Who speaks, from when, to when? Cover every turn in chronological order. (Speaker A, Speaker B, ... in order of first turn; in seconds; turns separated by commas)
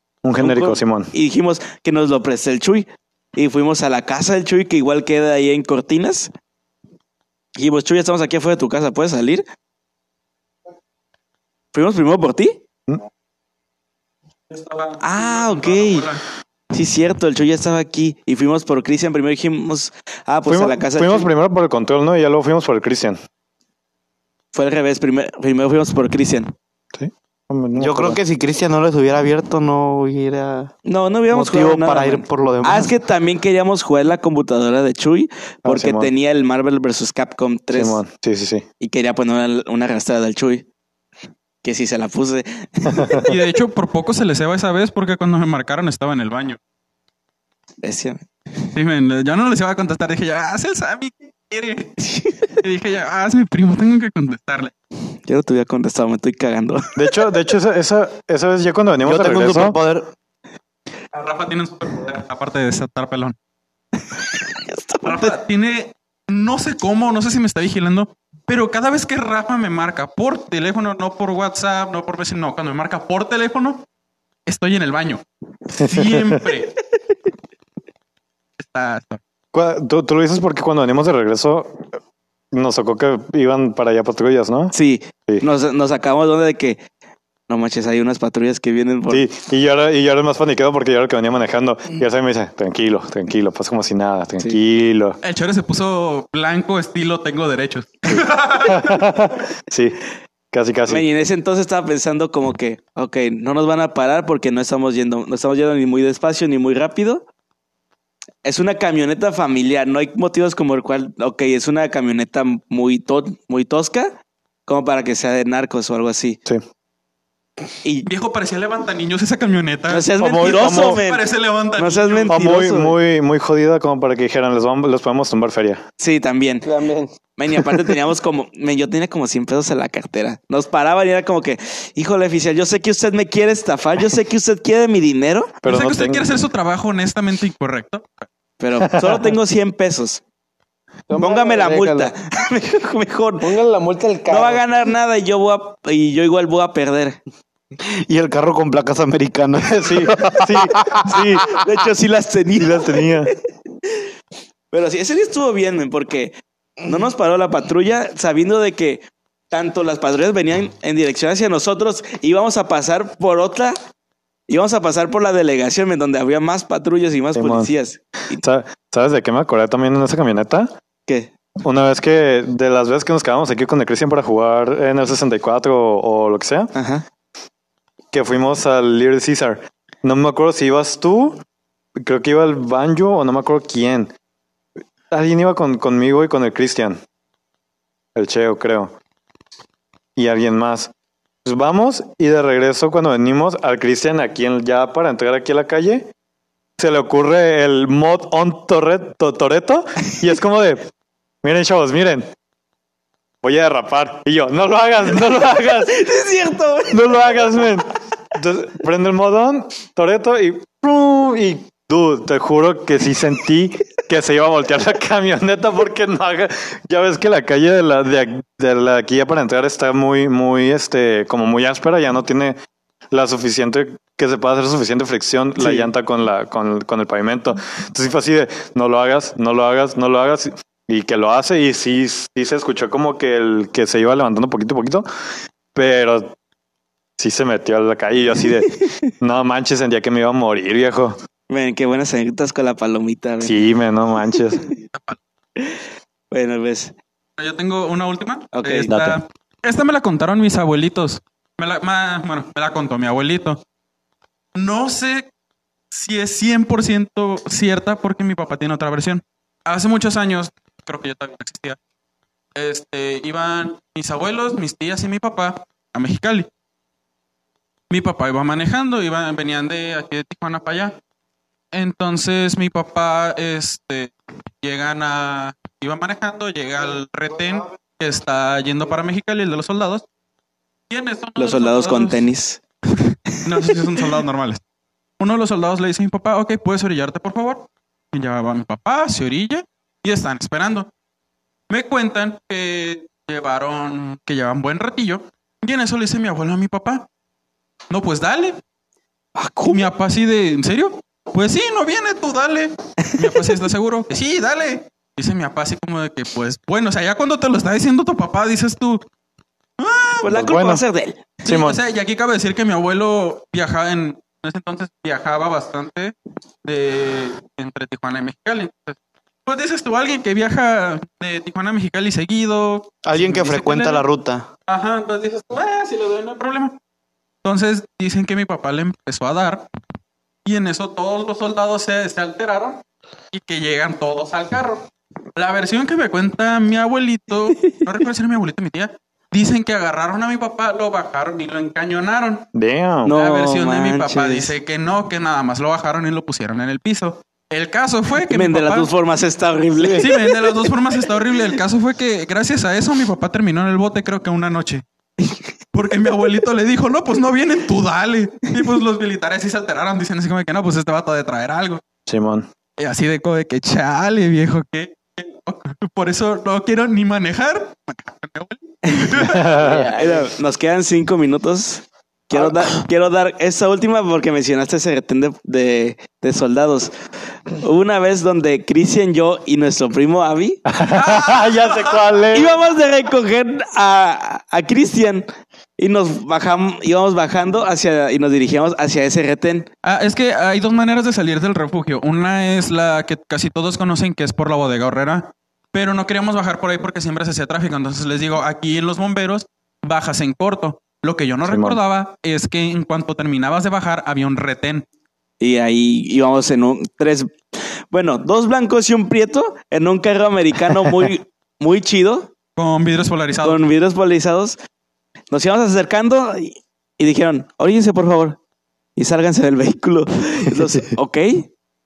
Speaker A: 0.2-1.1, Speaker B: 0.4-6.3, Speaker B: 7.5-9.4, Speaker B: 11.7-12.6, Speaker C: 14.5-16.2, Speaker B: 15.0-16.1, Speaker B: 16.7-21.3, Speaker A: 20.4-23.2, Speaker B: 24.5-26.5, Speaker A: 26.9-28.2, Speaker D: 27.8-30.7, Speaker B: 30.9-38.0, Speaker D: 31.3-33.0, Speaker A: 35.6-36.1, Speaker A: 37.7-38.6, Speaker B: 38.8-40.6, Speaker B: 41.6-43.2, Speaker A: 42.9-43.3, Speaker C: 43.2-46.6, Speaker B: 47.8-48.2, Speaker C: 48.7-54.7, Speaker B: 52.0-52.4, Speaker B: 55.2-57.2, Speaker A: 57.0-59.8, Speaker D: 59.0-60.1, Speaker C: 61.1-63.4, Speaker B: 64.4-65.3, Speaker C: 65.0-73.8, Speaker C: 74.5-76.8, Speaker A: 75.8-76.4, Speaker C: 78.6-79.2, Speaker A: 79.5-82.0, Speaker A: 82.5-84.7, Speaker B: 84.7-86.8, Speaker B: 87.5-89.3, Speaker A: 89.1-95.2, Speaker C: 95.2-99.1, Speaker A: 98.1-100.0, Speaker A: 100.5-101.0, Speaker B: 100.9-107.2, Speaker B: 108.4-116.4, Speaker B: 117.8-118.1, Speaker C: 118.0-122.3, Speaker B: 119.9-123.0, Speaker A: 120.2-121.0, Speaker A: 122.3-125.8, Speaker B: 126.0-126.7, Speaker E: 126.6-127.7, Speaker B: 127.3-135.5, Speaker A: 135.6-136.3, Speaker C: 135.6-138.2, Speaker B: 138.6-140.2, Speaker A: 138.8-139.3, Speaker E: 141.1-142.1, Speaker B: 141.2-143.5, Speaker E: 143.4-144.6, Speaker B: 144.3-147.2, Speaker D: 147.8-151.7, Speaker A: 149.6-151.5, Speaker B: 151.4-153.3, Speaker A: 152.6-153.3, Speaker B: 154.7-163.8, Speaker B: 164.5-168.4, Speaker A: 167.3-167.7, Speaker A: 168.4-170.7, Speaker B: 171.1-171.3, Speaker A: 171.6-176.7, Speaker B: 176.7-177.0, Speaker A: 178.1-181.4, Speaker A: 181.9-184.1, Speaker A: 185.1-187.0, Speaker A: 188.1-188.9, Speaker A: 190.2-190.9, Speaker A: 191.4-196.1, Speaker A: 196.8-200.8, Speaker A: 201.4-202.3, Speaker A: 203.4-206.0, Speaker B: 205.1-207.8, Speaker A: 206.9-222.6, Speaker A: 223.1-235.1, Speaker B: 225.6-225.9, Speaker A: 235.7-236.3, Speaker A: 237.2-241.2, Speaker B: 241.5-243.7, Speaker A: 243.4-244.6, Speaker C: 244.9-245.2, Speaker B: 246.3-246.9, Speaker C: 247.4-253.6, Speaker B: 248.5-248.9, Speaker A: 248.9-249.2, Speaker C: 254.5-255.3, Speaker C: 255.9-261.8, Speaker C: 262.5-266.5, Speaker C: 267.9-271.0, Speaker C: 271.7-280.0, Speaker C: 280.9-282.2, Speaker B: 281.4-282.6, Speaker C: 283.1-284.6, Speaker B: 283.4-283.8, Speaker C: 285.2-290.9, Speaker C: 291.7-297.1, Speaker C: 297.9-298.6, Speaker B: 299.3-299.9, Speaker C: 299.6-309.0, Speaker B: 303.1-303.3, Speaker C: 309.8-310.3, Speaker B: 310.2-311.3, Speaker A: 310.3-310.8, Speaker A: 311.4-311.8, Speaker C: 311.4-324.0, Speaker D: 323.0-324.5, Speaker C: 324.7-326.7, Speaker C: 327.4-329.6, Speaker C: 330.4-332.8, Speaker C: 333.3-334.8, Speaker C: 335.4-342.4, Speaker A: 342.5-343.1, Speaker B: 343.0-344.5, Speaker C: 343.1-348.9, Speaker B: 348.3-350.3, Speaker C: 350.0-354.8, Speaker C: 355.7-361.8, Speaker A: 362.1-362.5, Speaker C: 362.8-369.5, Speaker B: 368.9-376.9, Speaker A: 369.2-369.9, Speaker E: 369.6-370.3, Speaker B: 377.6-380.6, Speaker A: 380.6-382.6, Speaker C: 380.9-382.0, Speaker B: 382.3-385.3, Speaker B: 385.8-389.7, Speaker C: 389.8-404.8, Speaker A: 401.4-401.8, Speaker B: 405.4-412.3, Speaker C: 412.6-413.6, Speaker B: 413.4-414.6, Speaker B: 415.3-418.4, Speaker B: 418.9-421.5